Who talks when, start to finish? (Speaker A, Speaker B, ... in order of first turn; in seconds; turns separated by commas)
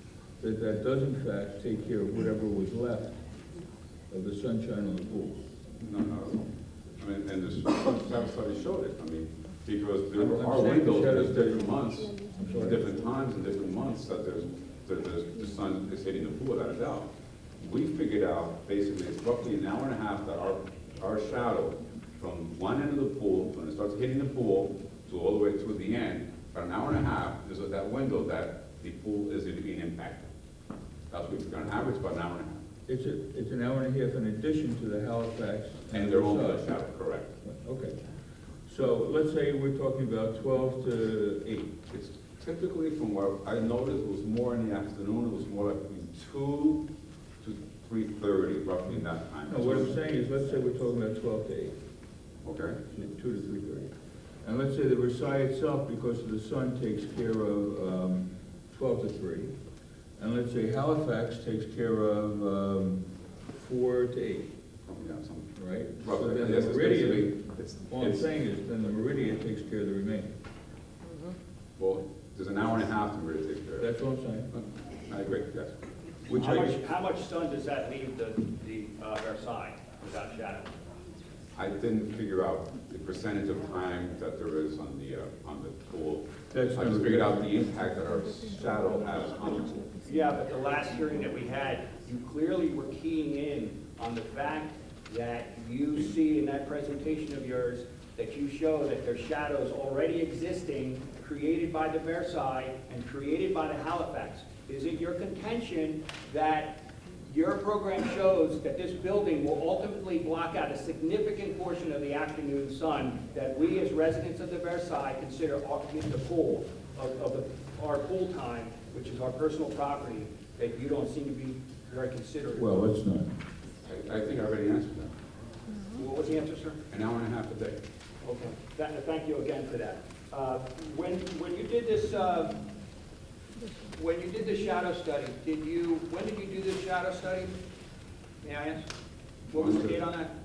Speaker A: 0.4-3.1, Speaker A: 4.1-5.4, Speaker B: 5.8-17.1, Speaker A: 10.2-11.7, Speaker A: 12.3-12.8, Speaker B: 17.6-30.3, Speaker B: 31.1-32.6, Speaker A: 32.9-36.7, Speaker B: 35.9-37.3, Speaker A: 37.4-38.0, Speaker A: 38.6-41.8, Speaker B: 41.9-46.8, Speaker B: 47.4-50.0, Speaker A: 49.5-51.8, Speaker B: 52.4-52.8, Speaker A: 52.9-53.9, Speaker A: 54.4-59.5, Speaker A: 60.2-64.5, Speaker B: 64.8-65.5, Speaker A: 65.5-70.3, Speaker B: 66.0-68.3, Speaker B: 71.8-73.9, Speaker A: 73.8-74.5, Speaker B: 74.5-75.7, Speaker A: 76.3-76.8, Speaker C: 76.3-80.7, Speaker B: 81.5-89.9, Speaker A: 86.5-87.5, Speaker C: 90.0-122.8, Speaker A: 122.5-123.3, Speaker B: 123.8-125.1, Speaker C: 125.9-126.8, Speaker B: 126.9-127.8, Speaker C: 128.2-132.6, Speaker C: 133.9-137.5, Speaker C: 138.4-138.9, Speaker C: 139.5-140.3, Speaker B: 139.5-140.0